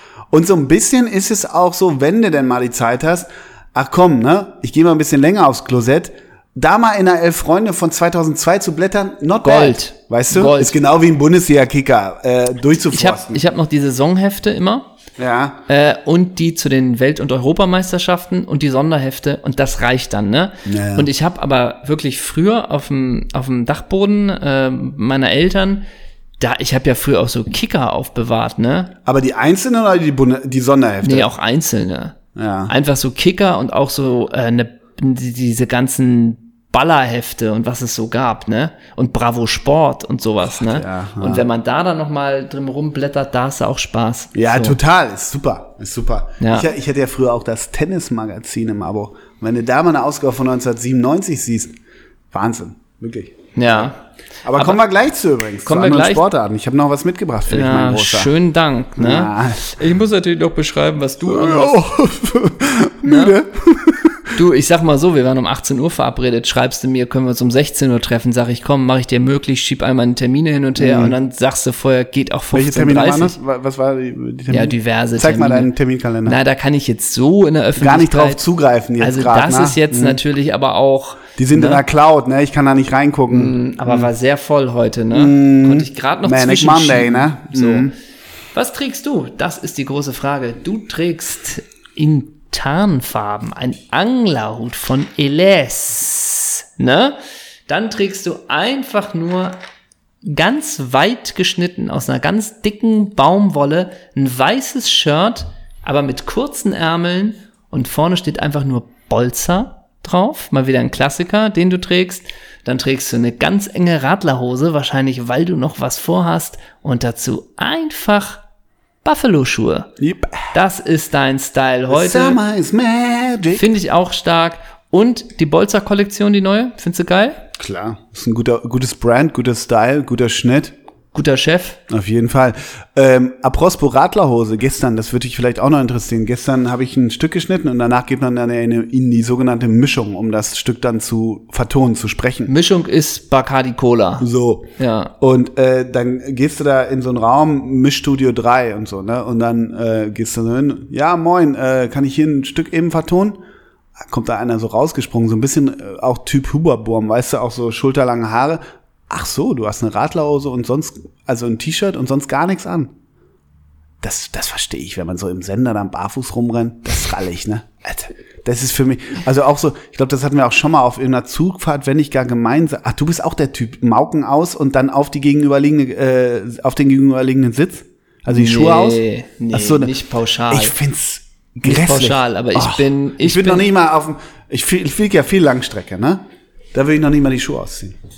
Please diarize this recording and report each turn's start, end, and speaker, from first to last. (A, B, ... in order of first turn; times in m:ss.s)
0:00.3-0:13.4 A
0:09.4-0:10.8 B
0:12.9-0:14.9 B
0:15.2-0:15.6 A
0:15.7-0:25.8 B
0:20.6-0:21.1 A
0:26.4-0:28.9 B
0:29.0-0:31.3 A
0:31.0-0:32.2 B
0:32.4-0:32.7 A
0:32.7-0:44.8 B
0:40.6-0:41.4 A
0:44.3-0:51.7 A
0:46.4-0:46.7 B
0:52.3-0:53.9 A
0:53.6-0:54.0 B
0:54.4-0:58.3 A
0:54.5-0:54.8 B
0:55.6-0:56.3 B
0:57.5-1:01.8 B
0:59.0-0:59.7 A
1:01.2-1:04.3 A
1:03.0-1:03.4 B
1:04.3-1:13.4 B
1:10.8-1:11.2 A
1:12.5-1:16.4 A
1:14.5-1:15.7 B
1:16.2-1:18.4 B
1:17.8-1:20.2 A
1:19.0-1:21.8 B
1:21.4-1:24.1 A
1:23.3-1:27.9 B
1:25.1-1:27.9 A
1:28.5-1:39.6 B
1:40.2-1:58.4 B
1:59.0-1:59.9 B
2:00.0-2:00.5 A
2:00.5-2:02.4 B
2:01.9-2:03.6 A
2:03.5-2:07.4 B
2:07.6-2:10.7 A
2:11.1-2:11.8 B
2:11.9-2:22.5 A
2:22.5-2:24.2 B
2:24.2-2:33.4 A
2:24.8-2:25.1 B
2:34.0-2:42.9 A
2:44.0-2:59.9 A
2:58.3-3:00.7 B
3:00.5-3:06.2 A
3:01.6-3:03.7 B
3:06.7-3:07.9 A